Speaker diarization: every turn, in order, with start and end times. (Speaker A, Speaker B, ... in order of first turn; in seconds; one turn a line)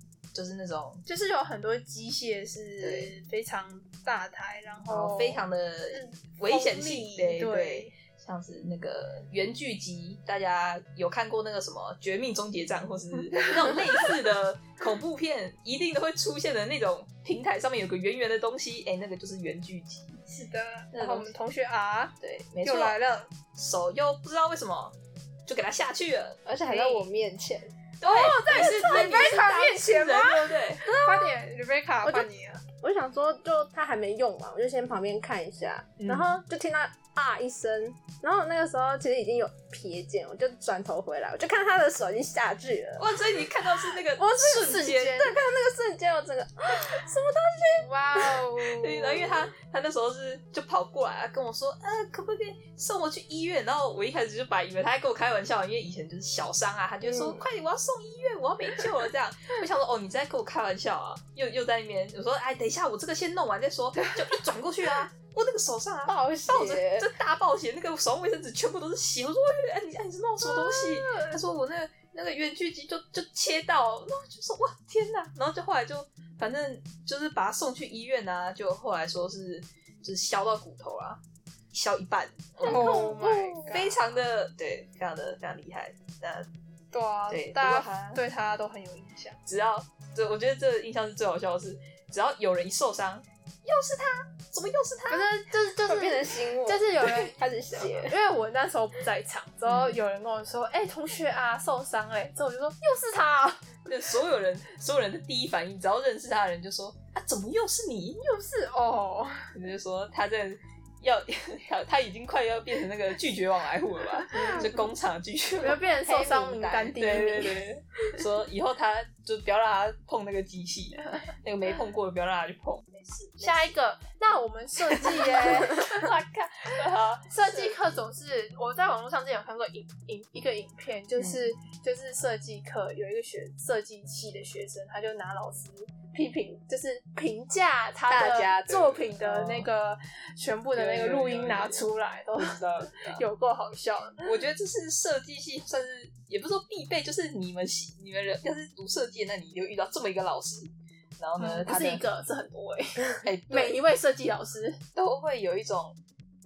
Speaker A: 0.3-1.0
Speaker B: 1.1-7.9
Speaker A: 2.8-3.1
Speaker A: 4.9-20.2
Speaker B: 13.3-14.1
Speaker B: 20.3-23.3
Speaker A: 20.9-21.4
Speaker A: 22.2-23.0
Speaker A: 23.6-24.9
Speaker A: 25.5-27.1
Speaker C: 26.5-27.7
Speaker A: 28.0-30.8
Speaker B: 28.0-32.6
Speaker C: 30.9-31.4
Speaker C: 32.0-32.3
Speaker C: 32.8-43.2
Speaker A: 36.0-36.4
Speaker A: 43.0-45.3
Speaker B: 44.1-45.4
Speaker C: 45.1-47.9
Speaker B: 47.6-49.5
Speaker A: 48.6-81.2
Speaker C: 57.0-57.4
Speaker B: 66.1-67.0
Speaker C: 66.4-66.9
Speaker B: 70.4-71.4
Speaker A: 81.7-86.5
Speaker B: 82.6-83.9
Speaker C: 82.7-83.6
Speaker B: 86.9-89.4
Speaker A: 87.3-88.2
Speaker A: 89.5-95.3
Speaker B: 95.1-103.8
Speaker C: 95.8-98.2
Speaker A: 99.7-100.0
Speaker A: 103.9-108.2
Speaker B: 108.2-109.5
Speaker A: 109.5-123.8
Speaker B: 114.3-114.8
Speaker B: 115.6-117.7
Speaker B: 123.4-126.1
Speaker A: 124.9-127.8
Speaker B: 127.3-144.3
Speaker A: 131.2-131.4
Speaker A: 138.1-139.7
Speaker A: 140.8-141.9
Speaker A: 142.4-143.2
Speaker A: 144.2-152.0
Speaker B: 151.4-154.8
Speaker A: 153.2-153.8
Speaker A: 154.9-156.0